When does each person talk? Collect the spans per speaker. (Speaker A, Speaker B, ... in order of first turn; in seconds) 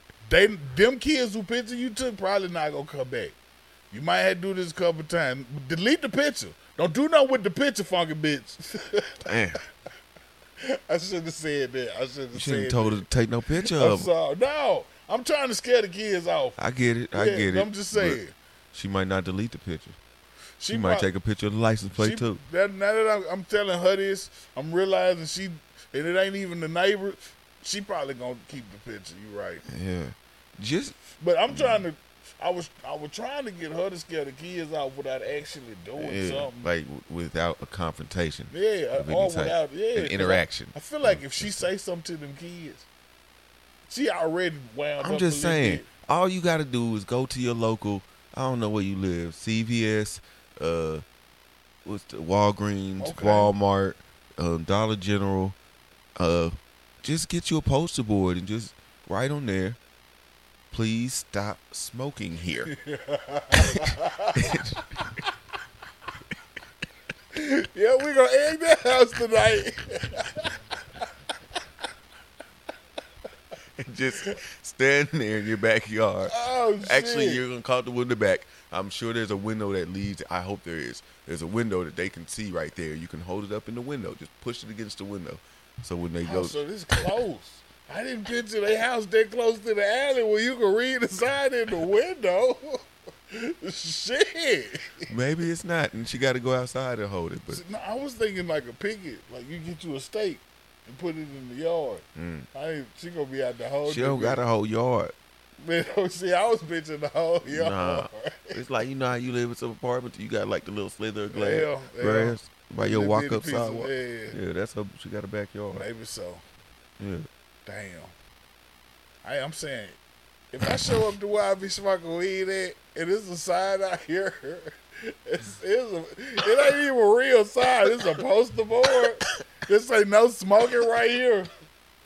Speaker A: 0.3-3.4, 3.9-9.3, 10.6-13.1, 13.6-16.6, 17.1-18.4, 20.6-21.1, 22.0-29.6, 31.2-36.7, 38.5-42.9, 43.9-45.9, 53.0-53.5, 62.7-65.3, 67.3-70.6, 76.3-77.4, 86.2-95.1, 97.5-104.4, 105.6-108.6, 111.3-114.4, 115.8-116.4, 117.7-118.1, 119.2-120.0, 120.5-131.5
Speaker B: 9.2-9.6, 12.3-14.1, 16.6-18.2, 18.7-20.0, 20.7-22.4, 29.7-31.0, 31.5-31.8, 36.0-41.6, 45.0-51.0, 51.9-55.6, 56.2-59.8, 60.7-62.7, 63.7-65.2, 73.8-87.1, 95.1-97.6, 102.2-102.5, 103.9-105.1, 107.5-115.9, 117.0-117.3